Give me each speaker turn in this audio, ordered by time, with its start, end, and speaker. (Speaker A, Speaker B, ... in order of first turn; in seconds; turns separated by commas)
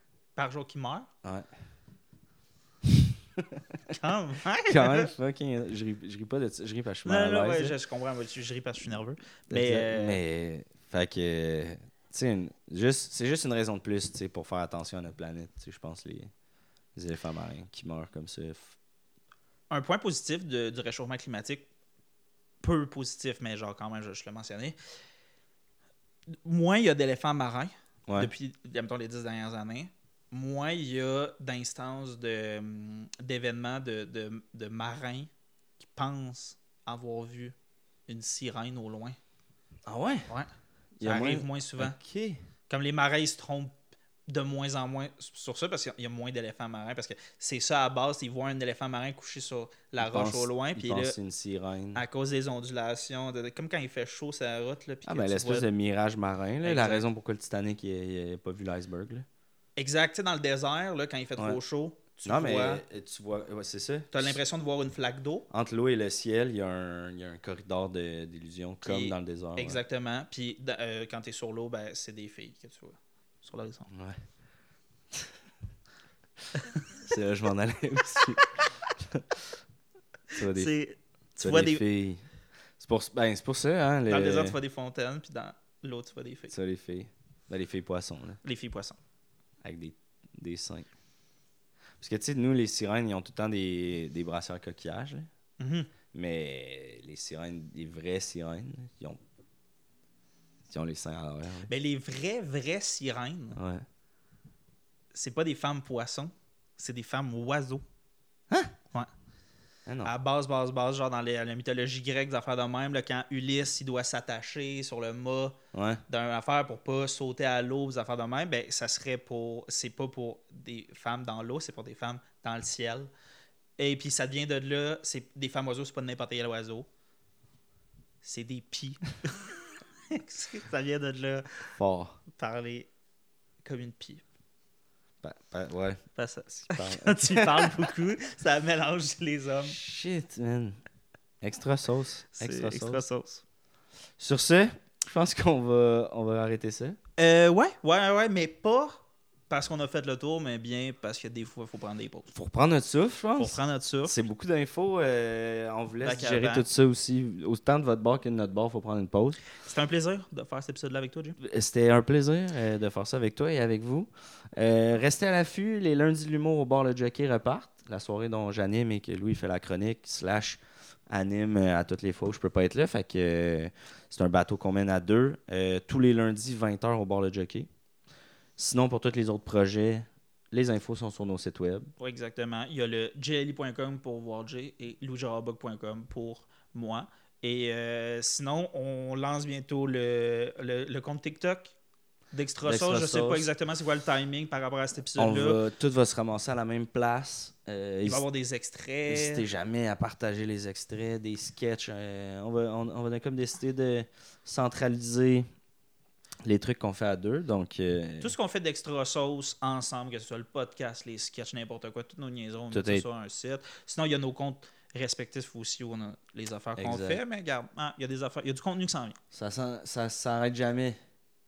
Speaker A: 0.3-1.1, Speaker B: 1.2-1.5, Speaker B: 2.8-4.0, Speaker A: 3.9-5.1, Speaker B: 4.7-7.8, Speaker A: 7.0-10.2, Speaker B: 9.5-16.3, Speaker B: 16.9-18.8, Speaker A: 19.7-21.7, Speaker A: 22.6-24.8, Speaker A: 26.3-35.3, Speaker A: 35.8-37.5, Speaker A: 38.1-39.2, Speaker B: 39.9-40.3, Speaker B: 41.0-42.4, Speaker A: 41.0-42.0, Speaker A: 42.7-43.7, Speaker A: 44.3-51.1, Speaker B: 50.0-52.0, Speaker A: 51.9-55.7, Speaker B: 55.0-59.2, Speaker A: 56.6-57.0, Speaker A: 59.8-62.8, Speaker B: 62.2-64.4, Speaker A: 64.1-65.5, Speaker B: 65.5-69.8, Speaker A: 68.8-73.9, Speaker B: 73.9-74.2, Speaker A: 76.5-77.0, Speaker B: 76.9-79.4, Speaker A: 78.2-78.6, Speaker B: 80.3-80.7, Speaker A: 80.3-81.8, Speaker B: 81.4-82.2, Speaker B: 82.8-84.6, Speaker A: 84.1-86.5, Speaker B: 86.5-88.4, Speaker A: 88.4-89.0, Speaker B: 89.6-90.9, Speaker B: 92.0-95.3, Speaker A: 95.6-95.9, Speaker B: 96.1-99.2, Speaker B: 100.7-101.7, Speaker A: 101.7-103.6, Speaker B: 103.5-103.8, Speaker A: 105.1-107.8, Speaker B: 109.8-110.1, Speaker A: 110.0-123.1, Speaker B: 115.7-116.0, Speaker A: 123.8-126.9, Speaker A: 128.2-131.7, Speaker B: 131.7-132.2, Speaker A: 132.3-132.9, Speaker A: 133.6-134.2, Speaker B: 135.2-137.9, Speaker A: 136.2-139.8, Speaker B: 139.6-140.8, Speaker B: 141.4-143.0, Speaker A: 142.3-143.4, Speaker B: 144.2-147.0, Speaker A: 147.2-152.3, Speaker B: 152.3-159.4, Speaker A: 153.4-154.2, Speaker A: 156.0-156.7, Speaker A: 159.5-161.4, Speaker B: 161.4-177.7, Speaker B: 178.6-181.9, Speaker A: 182.0-191.7, Speaker A: 192.3-195.6, Speaker B: 192.6-193.5, Speaker B: 195.2-198.2, Speaker A: 198.0-199.4, Speaker B: 199.1-205.5, Speaker B: 206.4-208.3, Speaker A: 208.2-219.2, Speaker B: 212.7-213.1, Speaker B: 216.8-217.2, Speaker B: 219.3-221.0